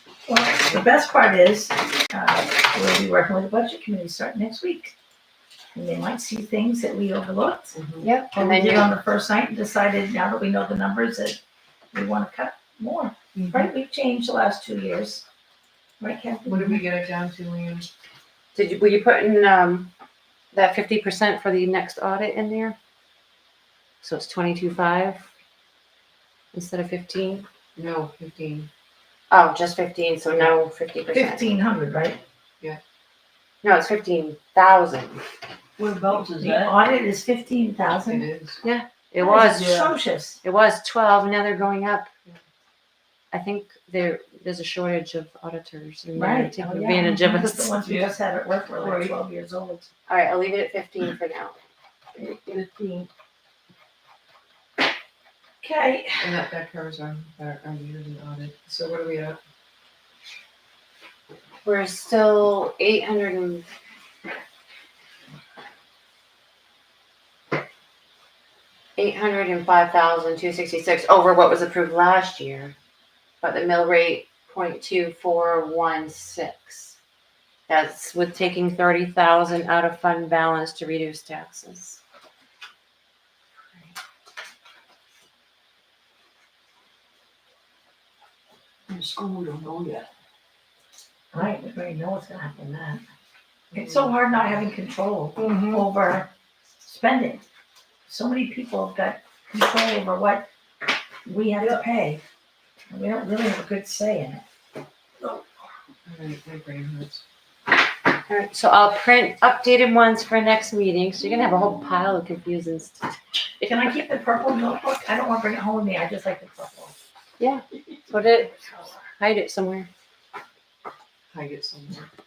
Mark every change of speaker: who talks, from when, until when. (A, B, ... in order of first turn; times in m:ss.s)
0:00.2-0:04.9 A
0:05.7-0:07.7 A
0:07.7-0:08.1 B
0:08.0-0:08.9 C
0:08.3-0:11.4 A
0:11.9-0:15.2 A
0:13.3-0:13.7 B
0:16.0-0:16.8 A
0:16.4-0:17.9 B
0:18.5-0:19.9 C
0:20.5-0:22.8 C
0:24.0-0:25.3 C
0:26.5-0:27.4 C
0:27.8-0:28.7 B
0:29.3-0:31.5 C
0:31.1-0:32.2 A
0:33.6-0:35.2 C
0:35.8-0:36.7 D
0:36.4-0:38.3 A
0:38.0-0:38.6 B
0:38.6-0:39.8 C
0:39.2-0:40.4 A
0:39.4-0:39.9 D
0:40.4-0:42.1 C
0:43.3-0:47.8 C
0:46.1-0:49.8 A
0:48.8-0:49.2 D
0:50.1-0:51.6 C
0:52.5-0:53.0 D
0:55.6-0:56.3 A
0:56.2-0:59.4 B
1:01.6-1:03.6 C
1:09.0-1:12.7 C
1:13.4-1:17.0 C
1:17.7-1:22.0 C
1:28.9-1:30.1 D
1:31.3-1:33.0 A
1:33.7-1:36.3 A
1:35.4-1:35.8 D
1:36.8-1:37.4 A
1:38.1-1:40.5 A
1:41.2-1:42.2 A
1:42.9-1:44.4 A
1:46.0-1:47.2 B
1:48.3-1:53.0 C
1:53.6-1:56.9 A
1:57.4-1:58.6 C
1:58.6-1:59.0 A
1:59.1-1:59.9 C
2:01.3-2:02.1 B